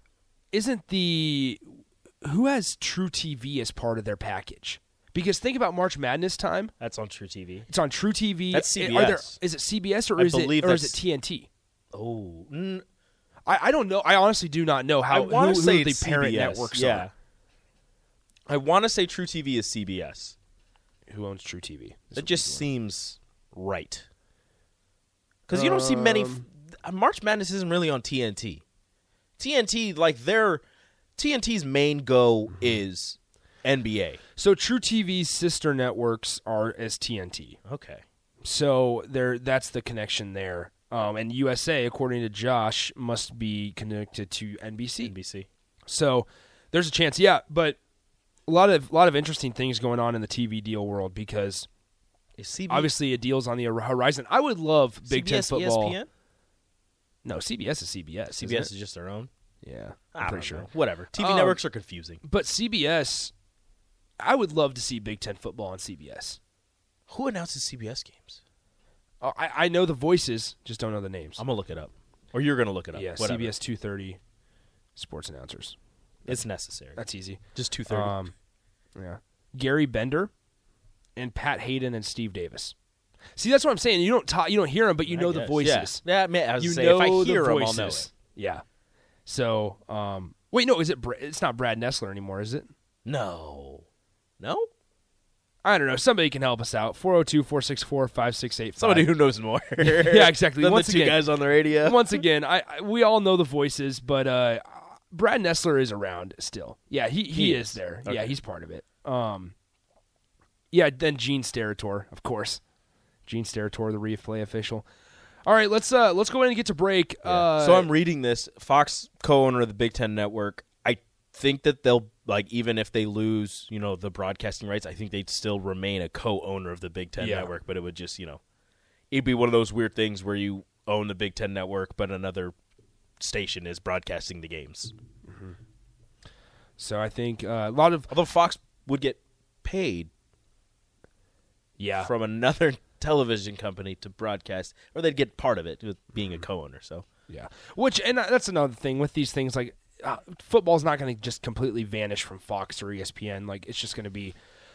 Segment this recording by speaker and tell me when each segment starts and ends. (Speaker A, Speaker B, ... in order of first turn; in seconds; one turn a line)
Speaker A: 0.5-1.6
Speaker A: 2.2-6.7
Speaker B: 6.8-7.7
Speaker A: 7.7-11.5
Speaker B: 8.5-9.4
Speaker B: 10.2-11.0
Speaker B: 11.9-12.8
Speaker A: 13.5-17.1
Speaker B: 15.1-17.1
Speaker B: 18.5-20.4
Speaker A: 21.1-22.6
Speaker B: 22.1-24.1
Speaker B: 25.5-28.6
Speaker A: 25.5-26.4
Speaker B: 29.4-30.6
Speaker B: 31.2-34.2
Speaker A: 34.4-37.6
Speaker B: 37.6-38.0
Speaker A: 38.4-45.1
Speaker B: 45.0-45.5
Speaker A: 45.9-47.8
Speaker A: 48.5-51.7
Speaker B: 52.4-52.9
Speaker A: 52.7-56.0
Speaker B: 55.0-56.1
Speaker A: 57.2-58.7
Speaker B: 58.3-59.3
Speaker A: 59.6-61.6
Speaker B: 60.1-62.2
Speaker A: 62.2-63.3
Speaker A: 64.2-66.4
Speaker B: 67.1-68.4
Speaker A: 69.2-71.4
Speaker B: 71.4-73.5
Speaker A: 72.9-74.2
Speaker A: 75.0-75.8
Speaker B: 76.2-77.0
Speaker A: 77.0-78.3
Speaker B: 77.5-78.2
Speaker A: 79.0-80.3
Speaker A: 81.2-82.7
Speaker A: 83.4-86.0
Speaker B: 85.0-88.1
Speaker A: 86.6-88.6
Speaker A: 89.2-92.7
Speaker B: 93.0-93.8
Speaker B: 94.4-94.7
Speaker A: 95.6-99.1
Speaker B: 98.8-102.2
Speaker A: 99.8-101.3
Speaker A: 101.8-109.5
Speaker B: 107.3-108.4
Speaker A: 110.7-112.6
Speaker A: 113.2-114.8
Speaker A: 115.5-117.9
Speaker B: 117.2-128.4
Speaker A: 127.2-127.5
Speaker B: 129.1-132.5
Speaker B: 133.2-134.9
Speaker A: 135.3-135.6
Speaker A: 136.8-138.1
Speaker B: 138.1-140.1
Speaker A: 141.8-142.1
Speaker B: 142.0-147.1
Speaker A: 147.3-154.3